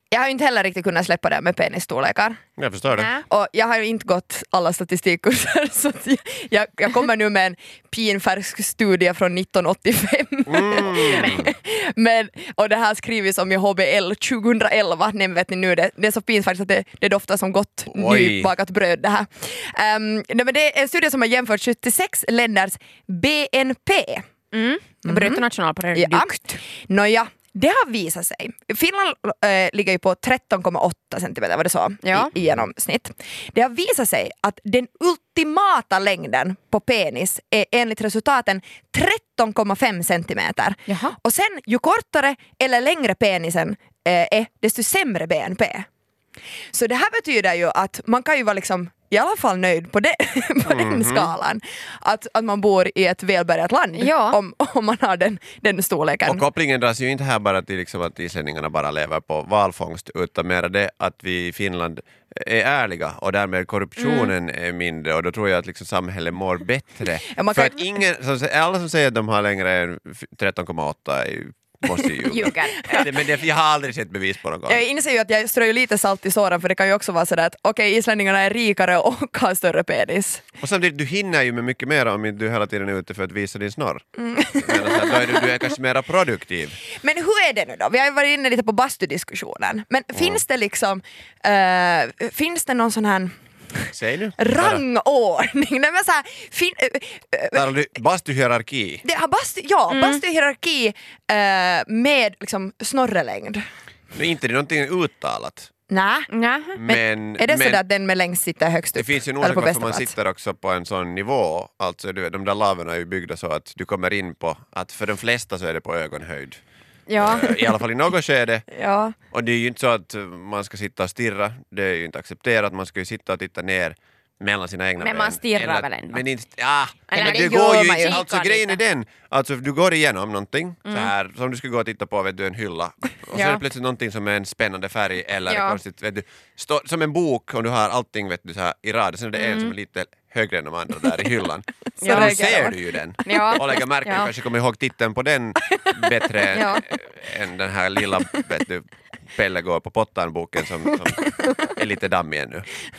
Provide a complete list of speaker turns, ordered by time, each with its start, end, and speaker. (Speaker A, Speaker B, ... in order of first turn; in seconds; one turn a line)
Speaker A: 0.1-2.4
Speaker B: 2.6-3.1
Speaker C: 3.0-3.2
Speaker A: 3.3-24.2
Speaker B: 10.5-11.5
Speaker C: 11.0-11.3
Speaker B: 17.9-18.5
Speaker C: 24.5-26.5
Speaker A: 25.1-45.9
Speaker C: 32.0-32.3
Speaker C: 40.9-41.2
Speaker A: 46.7-56.4
Speaker B: 50.6-51.3
Speaker C: 54.0-54.4
Speaker B: 56.2-74.8
Speaker C: 64.0-64.3
Speaker A: 67.3-68.0
Speaker C: 72.3-73.1
Speaker A: 74.7-80.4
Speaker B: 80.6-84.1
Speaker A: 84.2-85.2
Speaker B: 84.6-86.8
Speaker A: 87.0-97.7
Speaker B: 90.1-90.4
Speaker B: 93.9-94.8
Speaker B: 97.5-99.0
Speaker A: 99.0-103.6
Speaker C: 99.9-100.2
Speaker B: 104.1-105.7
Speaker A: 105.9-106.3
Speaker C: 106.3-106.8
Speaker B: 106.8-107.8
Speaker A: 106.8-110.1
Speaker B: 109.0-116.6
Speaker C: 117.1-117.8
Speaker B: 117.2-118.7
Speaker A: 118.7-119.2
Speaker B: 119.3-152.7
Speaker C: 125.0-126.2
Speaker C: 127.1-128.8
Speaker A: 127.1-128.2
Speaker C: 130.9-131.1
Speaker C: 133.3-133.6
Speaker C: 135.5-135.8
Speaker C: 139.3-139.7
Speaker C: 142.0-142.7
Speaker A: 142.0-142.8
Speaker C: 143.2-144.3
Speaker C: 146.5-146.8